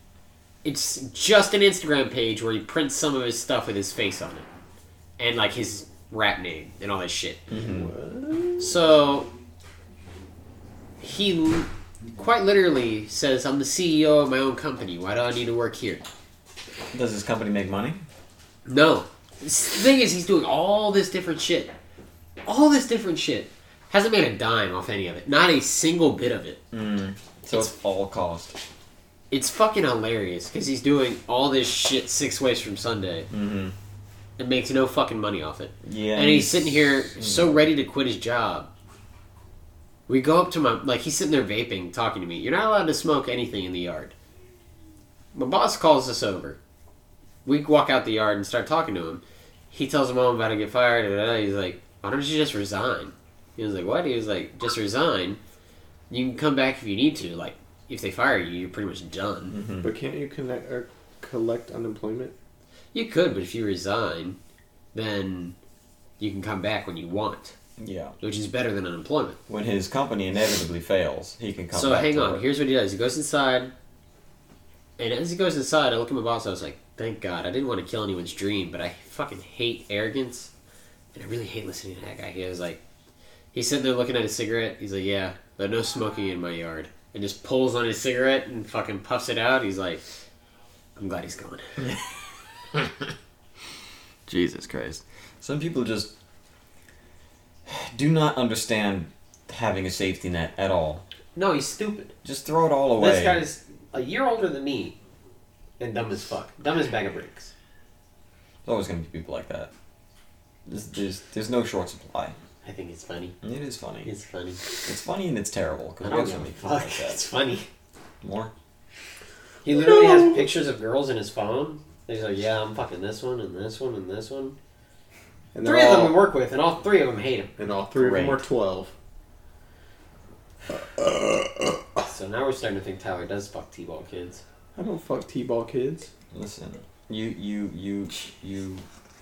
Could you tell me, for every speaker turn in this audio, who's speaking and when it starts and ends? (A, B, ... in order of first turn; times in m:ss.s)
0:00.6-0:04.4 A
0:05.2-0:07.4 A
0:07.5-0:07.9 B
0:07.5-0:08.7 C
0:08.6-0:09.3 A
0:11.0-0:16.0 A
0:16.9-0:18.0 B
0:18.6-0:21.7 A
0:22.4-0:26.6 A
0:26.7-0:28.5 B
0:29.3-0:33.3 A
0:33.3-0:33.7 B
0:34.4-0:38.7 A
0:35.8-0:37.6 B
0:40.1-0:44.1 A
0:45.3-0:46.6 A
0:47.4-0:55.4 A
0:56.1-0:59.5 A
0:59.5-0:59.9 B
0:59.8-1:02.3 C
1:02.9-1:04.4 A
1:04.9-1:05.6 A
1:06.2-1:07.5 A
1:07.8-1:08.1 B
1:08.2-1:09.4 A
1:09.5-1:12.4 B
1:11.7-1:13.7 A
1:15.0-1:20.5 A
1:21.1-1:22.8 A
1:23.5-1:30.0 A
1:31.0-1:31.8 A
1:34.3-1:36.1 B
1:37.6-1:41.0 B
1:41.3-1:42.1 A
1:42.2-1:43.4 B
1:43.0-1:45.0 A
1:45.8-1:47.5 A
1:48.6-1:49.7 B
1:50.6-1:52.4 B
1:52.6-1:53.4 A
1:53.4-1:54.1 B
1:54.0-1:54.6 A
1:54.8-1:57.2 B
1:56.0-1:57.7 A
1:58.2-1:58.5 B
1:59.6-2:04.6 A
1:59.7-2:00.5 C
2:05.5-2:06.2 C
2:05.6-2:07.5 A
2:07.6-2:08.9 C
2:08.0-2:08.4 B
2:10.7-2:12.0 C
2:12.1-2:14.4 A
2:14.7-2:16.1 C
2:16.3-2:18.8 B